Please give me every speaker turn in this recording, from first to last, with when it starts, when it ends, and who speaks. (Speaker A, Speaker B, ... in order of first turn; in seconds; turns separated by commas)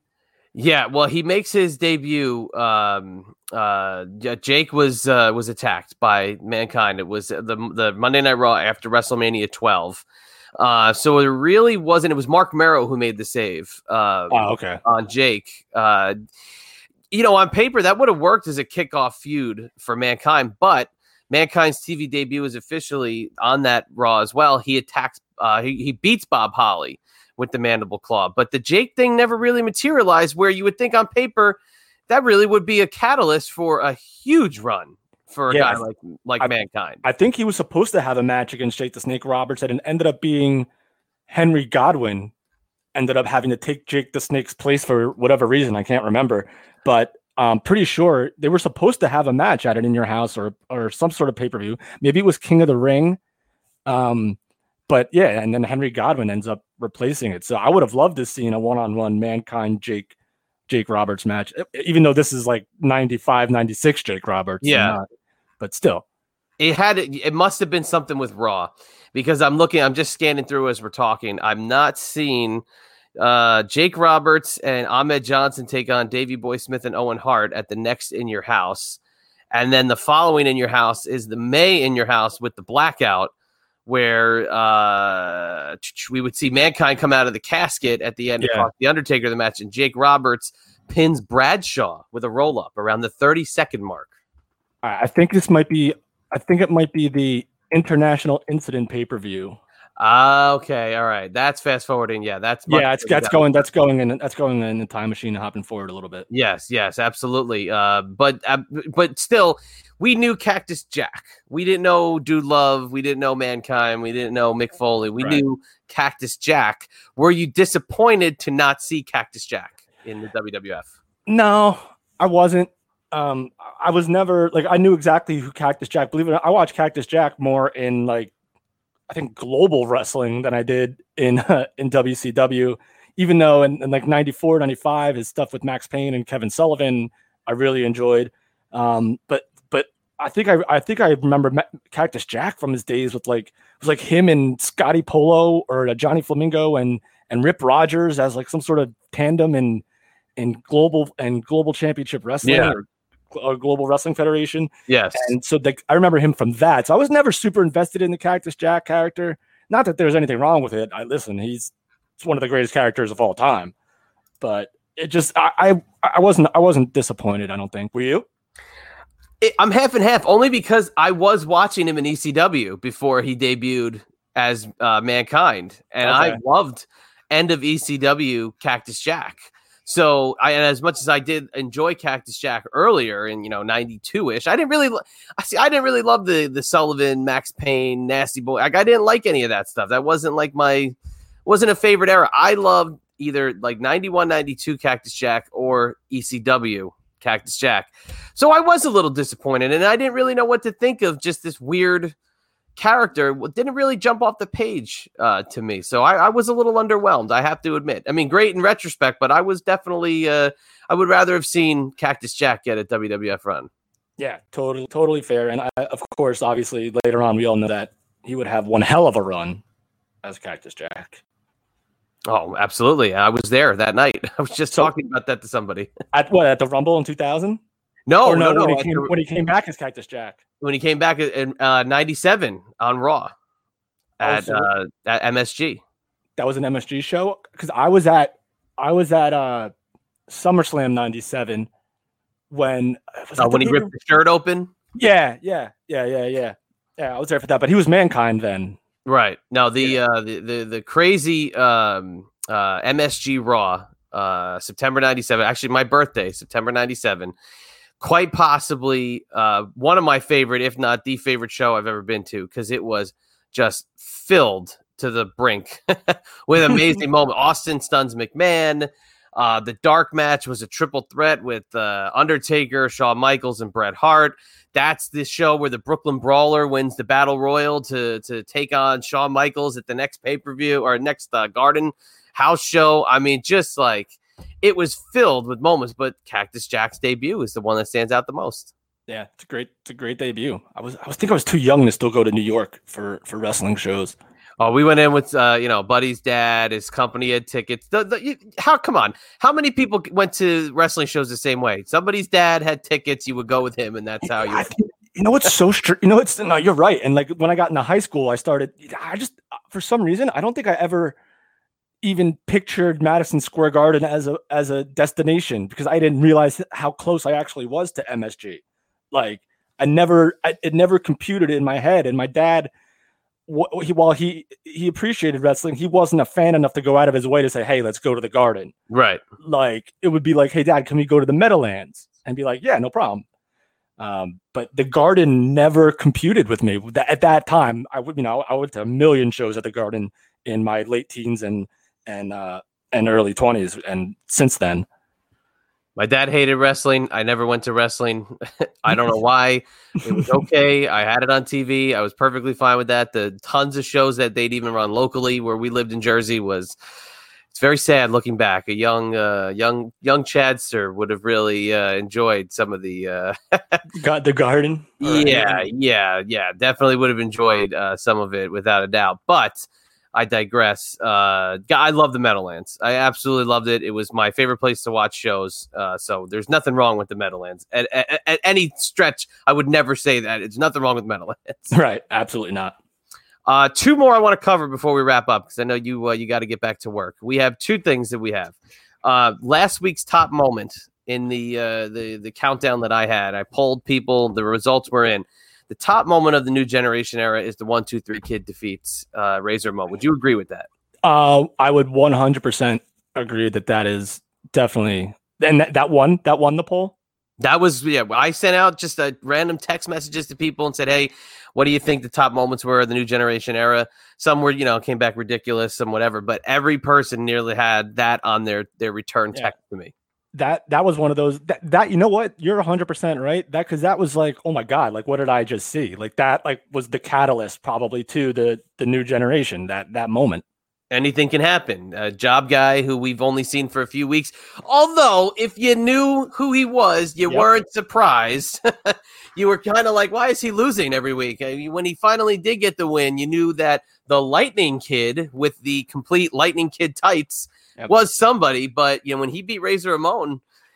Speaker A: 0.6-10.0, Speaker A: 10.6-16.1, Speaker B: 14.3-14.8, Speaker A: 17.1-37.0, Speaker B: 35.5-35.8, Speaker B: 37.0-40.7, Speaker B: 41.3-42.3, Speaker B: 42.9-53.2, Speaker B: 53.9-54.4, Speaker B: 54.9-60.1, Speaker B: 60.7-65.1, Speaker A: 64.6-65.0, Speaker B: 65.6-66.0, Speaker A: 66.6-72.6, Speaker A: 73.2-79.0, Speaker A: 79.5-83.3, Speaker A: 83.9-94.1, Speaker B: 88.4-88.7, Speaker B: 94.8-99.6, Speaker A: 100.0-103.7, Speaker B: 102.7-106.3, Speaker A: 106.3-120.9, Speaker B: 121.3-128.3, Speaker B: 129.1-149.8, Speaker B: 150.4-163.7, Speaker A: 152.4-152.8, Speaker A: 154.9-155.3, Speaker B: 164.4-168.3, Speaker A: 169.4-190.9, Speaker B: 176.0-176.4, Speaker A: 191.5-202.2, Speaker A: 202.8-213.7, Speaker B: 214.2-219.6, Speaker B: 220.2-221.2, Speaker A: 222.3-225.9, Speaker B: 226.1-227.6, Speaker A: 228.1-229.1, Speaker B: 228.2-230.4, Speaker A: 230.6-233.3, Speaker A: 234.2-235.8, Speaker B: 234.2-234.7, Speaker B: 236.4-239.7, Speaker B: 240.3-241.7, Speaker B: 242.5-243.9, Speaker A: 243.4-244.7, Speaker B: 244.9-248.8, Speaker A: 249.1-257.3, Speaker A: 258.0-288.7, Speaker B: 266.6-267.0, Speaker B: 289.1-294.2, Speaker A: 294.6-304.7, Speaker B: 304.2-311.2, Speaker B: 312.0-322.7, Speaker B: 323.5-328.7, Speaker A: 328.9-329.2, Speaker B: 329.4-333.2, Speaker B: 334.0-344.9, Speaker A: 346.0-356.8, Speaker A: 357.5-363.8, Speaker B: 363.9-365.7, Speaker A: 365.0-381.7, Speaker B: 381.7-382.8, Speaker A: 383.5-400.7, Speaker B: 401.0-407.0, Speaker A: 407.4-419.9, Speaker B: 420.3-430.4, Speaker A: 430.9-450.4